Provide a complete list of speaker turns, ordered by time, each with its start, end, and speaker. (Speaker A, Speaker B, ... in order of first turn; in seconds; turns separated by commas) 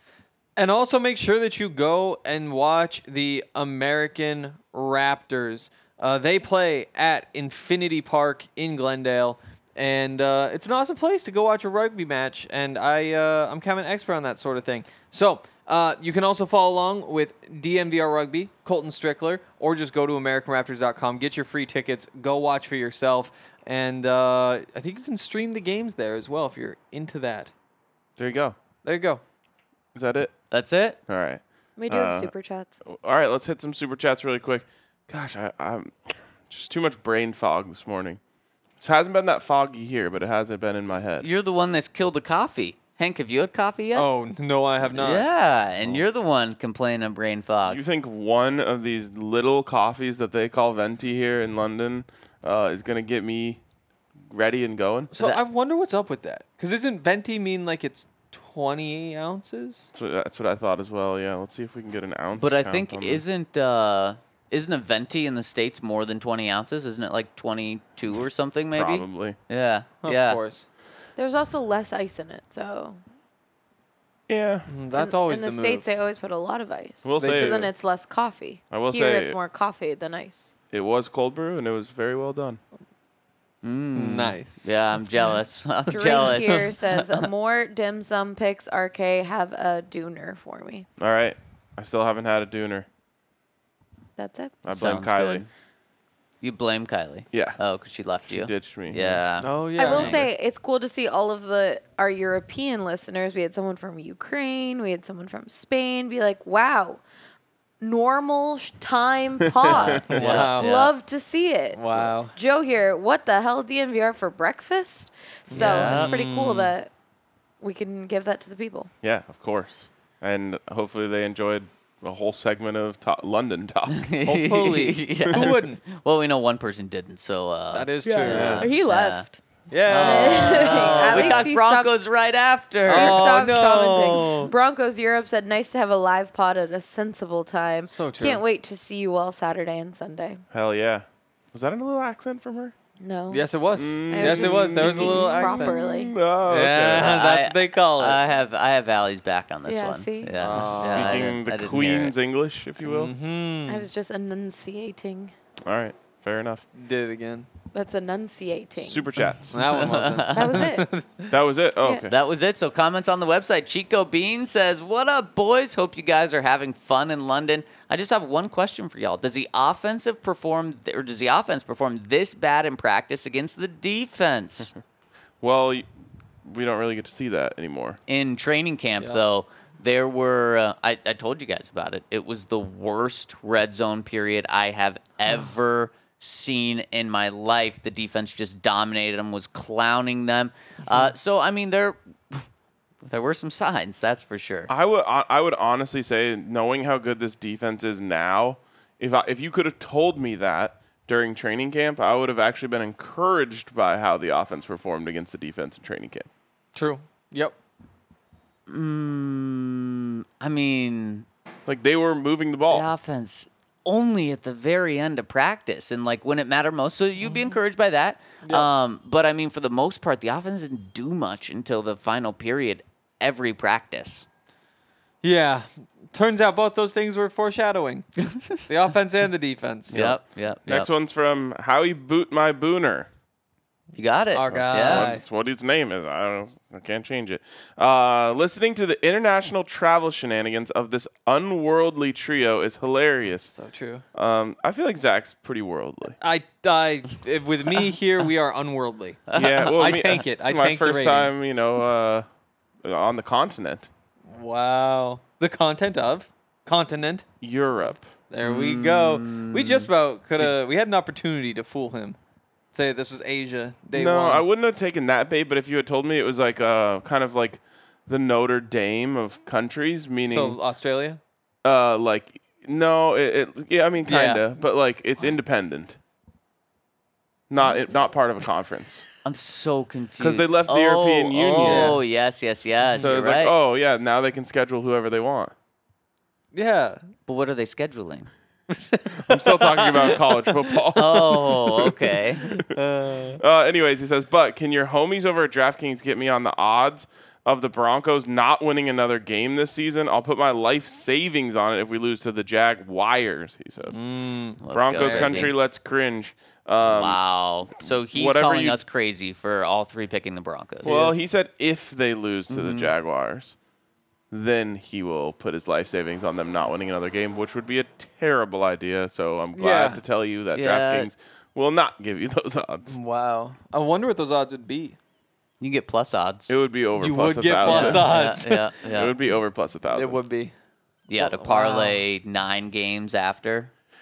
Speaker A: 0.6-27.5, Speaker B: 28.2-28.6, Speaker A: 28.8-29.2, Speaker B: 29.9-30.3, Speaker C: 30.5-31.0, Speaker B: 31.1-32.3, Speaker D: 31.8-32.8, Speaker B: 32.9-38.2, Speaker B: 38.8-41.3, Speaker C: 41.2-44.1, Speaker A: 44.0-45.3, Speaker C: 44.9-47.8, Speaker B: 47.7-53.6, Speaker B: 54.3-55.1, Speaker A: 55.1-59.9, Speaker B: 59.9-63.2, Speaker C: 62.4-70.4, Speaker B: 68.7-69.4, Speaker A: 70.0-70.7, Speaker D: 71.2-73.0, Speaker B: 74.3-74.8, Speaker A: 74.7-75.9, Speaker D: 74.9-80.5, Speaker B: 77.0-77.7, Speaker A: 77.2-77.7, Speaker B: 78.7-79.4, Speaker B: 80.7-82.6, Speaker C: 83.6-87.3, Speaker A: 84.0-84.8, Speaker D: 85.9-90.9, Speaker A: 86.2-86.6, Speaker B: 91.0-92.9, Speaker D: 94.2-94.6, Speaker B: 94.7-95.5, Speaker C: 94.7-95.5, Speaker C: 96.4-99.5, Speaker B: 97.3-97.6, Speaker B: 98.3-99.2, Speaker A: 99.4-100.2, Speaker D: 99.8-107.0, Speaker B: 99.8-100.3, Speaker D: 107.8-116.9, Speaker B: 109.5-110.3, Speaker A: 110.0-110.7, Speaker C: 110.1-110.9, Speaker A: 111.7-112.3, Speaker A: 115.5-116.7, Speaker C: 115.5-116.2, Speaker D: 117.6-118.9, Speaker B: 119.0-124.1, Speaker C: 123.9-129.3, Speaker A: 124.3-125.8, Speaker A: 127.7-128.6, Speaker D: 128.1-129.4, Speaker B: 128.3-128.7, Speaker A: 129.7-131.5, Speaker C: 129.9-133.4, Speaker D: 129.9-132.0, Speaker A: 132.9-134.5, Speaker D: 132.9-140.4, Speaker A: 137.9-138.4, Speaker B: 140.5-142.8, Speaker D: 143.0-143.5, Speaker A: 143.3-145.8, Speaker B: 143.8-147.1, Speaker D: 144.1-146.2, Speaker A: 146.4-148.2, Speaker C: 147.0-152.1, Speaker D: 149.7-150.9, Speaker A: 150.4-151.3, Speaker B: 150.5-153.1, Speaker A: 152.8-153.9, Speaker D: 153.7-155.3, Speaker B: 155.7-156.7, Speaker A: 156.8-157.5, Speaker D: 157.7-159.1, Speaker B: 158.8-159.6, Speaker A: 159.5-161.3, Speaker C: 159.7-160.7, Speaker D: 160.3-160.9, Speaker B: 161.3-162.1, Speaker C: 162.1-174.7, Speaker B: 175.4-175.9, Speaker B: 176.4-178.0, Speaker C: 178.1-192.4, Speaker C: 193.1-194.7, Speaker B: 194.7-206.3, Speaker A: 206.8-207.6, Speaker C: 208.7-211.3, Speaker B: 211.7-212.9, Speaker C: 212.7-224.3, Speaker A: 218.4-218.7, Speaker A: 225.2-228.1, Speaker A: 228.7-230.1, Speaker C: 229.9-230.9, Speaker B: 229.9-233.1, Speaker C: 233.9-235.1, Speaker A: 234.3-235.2, Speaker B: 234.5-243.5, Speaker A: 243.5-244.0, Speaker B: 244.2-246.2, Speaker A: 246.2-251.3, Speaker C: 249.3-249.8, Speaker B: 249.3-252.3, Speaker B: 252.8-253.9, Speaker A: 254.3-257.3, Speaker B: 257.4-258.1, Speaker A: 258.3-262.2, Speaker C: 258.4-259.9, Speaker A: 262.7-264.4, Speaker B: 263.9-270.6, Speaker A: 270.2-271.2, Speaker B: 271.6-276.0, Speaker A: 274.0-274.5, Speaker B: 277.5-279.1, Speaker C: 279.2-283.5, Speaker B: 280.2-282.0, Speaker A: 281.6-282.0, Speaker A: 282.8-283.1, Speaker B: 283.0-285.5, Speaker A: 286.5-287.0, Speaker C: 287.3-288.3, Speaker A: 288.7-290.9, Speaker B: 289.3-291.5, Speaker C: 291.0-292.6, Speaker A: 292.6-293.4, Speaker B: 293.4-304.0, Speaker A: 303.9-305.5, Speaker C: 304.6-305.5, Speaker B: 304.7-307.2, Speaker C: 306.8-311.0, Speaker B: 307.8-308.8, Speaker A: 310.8-311.3, Speaker B: 310.8-313.6, Speaker C: 312.5-312.9, Speaker B: 314.3-323.0, Speaker A: 319.5-320.0, Speaker C: 320.5-321.1, Speaker A: 322.9-325.0, Speaker C: 325.6-326.5, Speaker B: 326.5-330.2, Speaker A: 327.0-328.7, Speaker C: 327.6-329.1, Speaker A: 329.9-330.5, Speaker C: 331.1-333.7, Speaker A: 331.2-332.0